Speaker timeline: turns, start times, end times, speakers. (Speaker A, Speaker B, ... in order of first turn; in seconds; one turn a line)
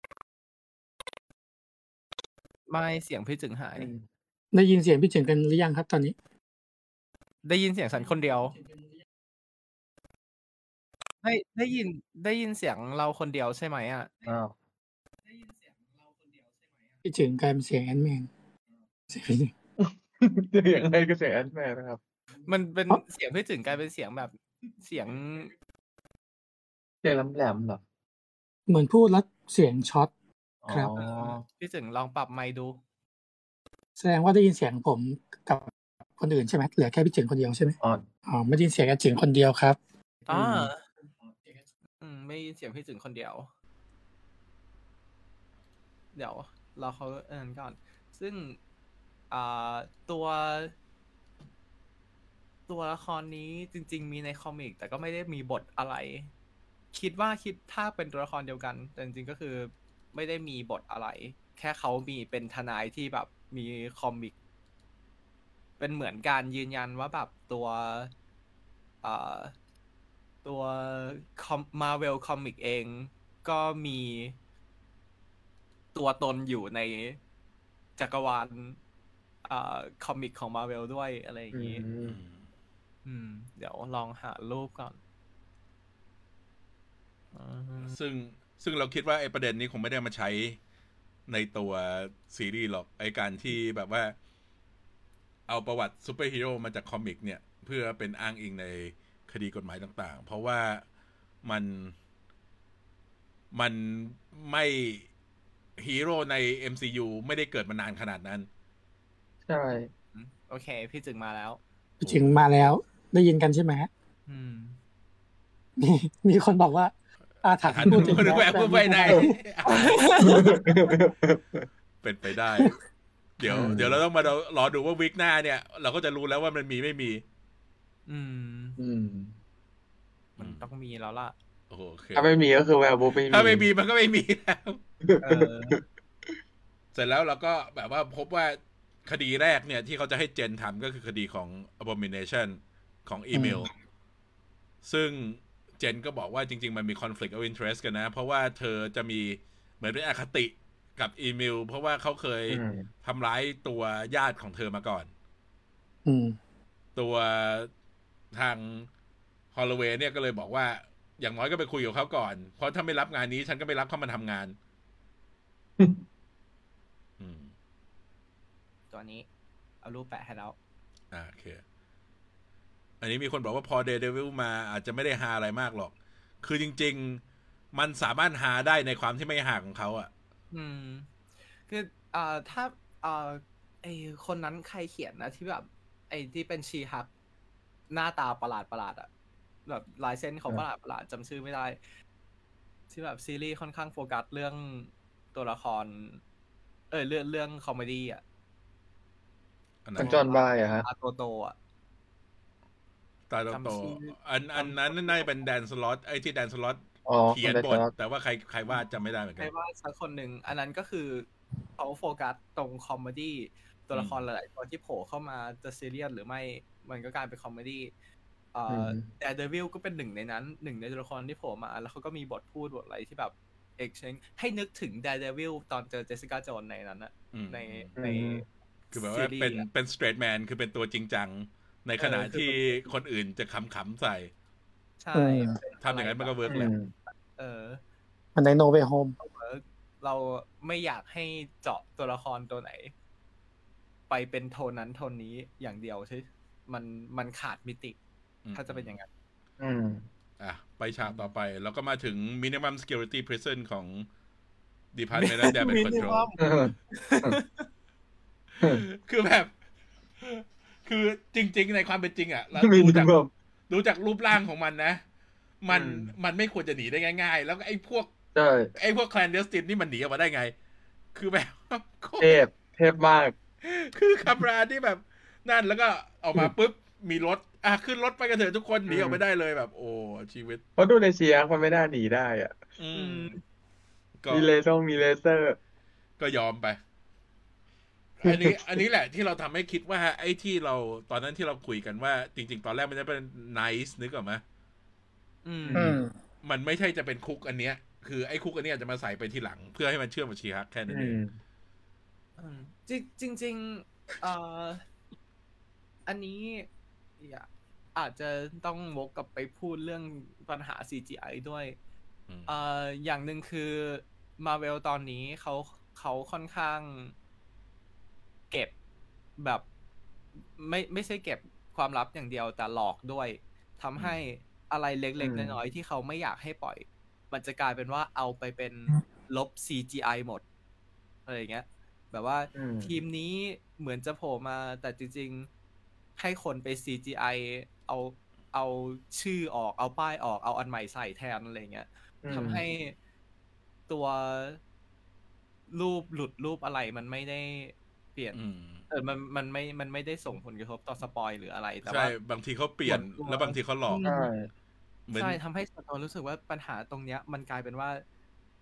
Speaker A: 2.7-3.9
Speaker B: 3.8-4.0
Speaker C: 4.5-6.1
Speaker A: 7.4-8.6
Speaker A: 11.2-14.1
Speaker B: 14.2-14.5
Speaker C: 17.0-18.3
Speaker C: 19.1-19.5
Speaker B: 19.8-22.0
Speaker A: 22.4-25.5
Speaker B: 27.0-27.8
Speaker C: 28.7-30.1
Speaker B: 30.6-31.4
Speaker C: 30.7-30.9
Speaker A: 30.9-32.8
Speaker C: 34.0-39.8
Speaker A: 40.3-40.8
Speaker B: 40.3-40.7
Speaker A: 42.0-43.5
Speaker A: 46.1-48.6
Speaker A: 49.3-50.7
Speaker A: 52.7-56.3
Speaker A: 56.9-64.3
Speaker A: 65.8-68.1
Speaker A: 69.0-69.5
Speaker A: 70.4-74.4
Speaker A: 75.9-77.2
Speaker A: 78.0-78.8
Speaker A: 79.4-81.8
Speaker B: 81.5-82.2
Speaker D: 82.0-82.5
Speaker A: 83.0-85.0
Speaker A: 87.3-88.0
Speaker D: 87.8-90.6
Speaker D: 91.3-94.1
Speaker D: 95.5-100.8
Speaker D: 101.4-101.9
Speaker D: 103.5-105.1
Speaker D: 105.8-108.5
Speaker B: 109.5-109.9
Speaker A: 110.1-111.6
Speaker D: 112.0-112.4
Speaker C: 112.0-113.9
Speaker A: 114.3-114.8
Speaker C: 115.8-119.3
Speaker D: 117.6-120.2
Speaker B: 119.1-121.7
Speaker A: 119.7-120.6
Speaker D: 122.0-122.8
Speaker D: 123.4-127.2
Speaker B: 123.4-124.0
Speaker A: 128.1-128.8
Speaker B: 128.8-129.3
Speaker A: 130.4-131.3
Speaker D: 130.4-130.7
Speaker D: 131.7-132.3
Speaker B: 132.1-133.7
Speaker D: 133.2-134.8
Speaker B: 135.1-135.8
Speaker A: 135.2-135.8
Speaker D: 136.9-143.7
Speaker D: 144.8-155.1
Speaker B: 152.5-152.8
Speaker C: 156.1-156.4
Speaker D: 156.9-157.7
Speaker D: 158.3-158.9
Speaker D: 159.5-164.6
Speaker D: 167.2-167.5
Speaker A: 168.9-169.2
Speaker A: 169.8-170.6
Speaker D: 171.1-171.6
Speaker D: 173.0-177.2
Speaker D: 177.7-180.1
Speaker A: 180.5-181.1
Speaker A: 181.7-187.1
Speaker A: 187.9-189.1
Speaker A: 189.7-191.8
Speaker A: 192.9-196.2
Speaker A: 196.9-198.2
Speaker D: 199.8-200.2
Speaker A: 199.9-201.6
Speaker B: 200.0-200.9
Speaker D: 203.3-209.5
Speaker A: 203.5-205.2
Speaker B: 207.1-207.9
Speaker A: 209.4-217.9
Speaker D: 213.9-214.2
Speaker A: 218.5-229.7
Speaker B: 218.7-219.1
Speaker D: 227.3-227.9
Speaker B: 228.0-228.4
Speaker D: 228.9-234.3
Speaker A: 232.0-232.9
Speaker A: 235.0-237.8
Speaker C: 235.1-235.6
Speaker D: 235.8-236.7
Speaker B: 236.5-236.9
Speaker C: 238.3-239.1
Speaker A: 239.2-242.9
Speaker A: 244.1-248.0
Speaker D: 248.4-248.9
Speaker A: 248.5-249.1
Speaker B: 249.6-250.1
Speaker D: 250.4-254.1
Speaker D: 254.9-256.3
Speaker A: 255.1-257.7
Speaker B: 256.4-257.4
Speaker D: 258.5-259.5
Speaker D: 260.2-263.1
Speaker B: 262.6-263.3
Speaker D: 263.7-265.0
Speaker D: 265.6-268.1
Speaker B: 265.7-266.1
Speaker B: 268.4-268.7
Speaker D: 268.8-270.5
Speaker D: 271.1-272.4
Speaker B: 272.2-273.4
Speaker D: 273.6-280.6
Speaker B: 278.9-279.2
Speaker B: 280.8-282.6
Speaker D: 282.8-283.4
Speaker A: 282.9-283.4
Speaker D: 284.2-284.5
Speaker B: 284.3-285.6
Speaker D: 286.2-286.8
Speaker D: 288.2-294.4
Speaker B: 288.2-288.6
Speaker A: 295.4-296.0
Speaker B: 295.6-296.0
Speaker C: 295.8-296.1
Speaker D: 296.4-301.2
Speaker B: 300.9-301.3
Speaker A: 302.4-304.8
Speaker A: 306.1-306.7
Speaker A: 307.2-311.8
Speaker A: 312.5-317.1
Speaker A: 319.4-319.6
Speaker A: 320.5-330.4
Speaker B: 325.2-325.6
Speaker A: 331.3-335.5
Speaker B: 332.5-332.9
Speaker A: 336.2-342.9
Speaker B: 342.2-342.6
Speaker A: 343.9-344.6
Speaker A: 345.7-348.4
Speaker D: 348.3-348.8
Speaker A: 348.9-352.1
Speaker D: 351.9-354.0
Speaker A: 352.9-354.3
Speaker B: 354.0-354.5
Speaker D: 355.1-355.4
Speaker A: 355.1-358.0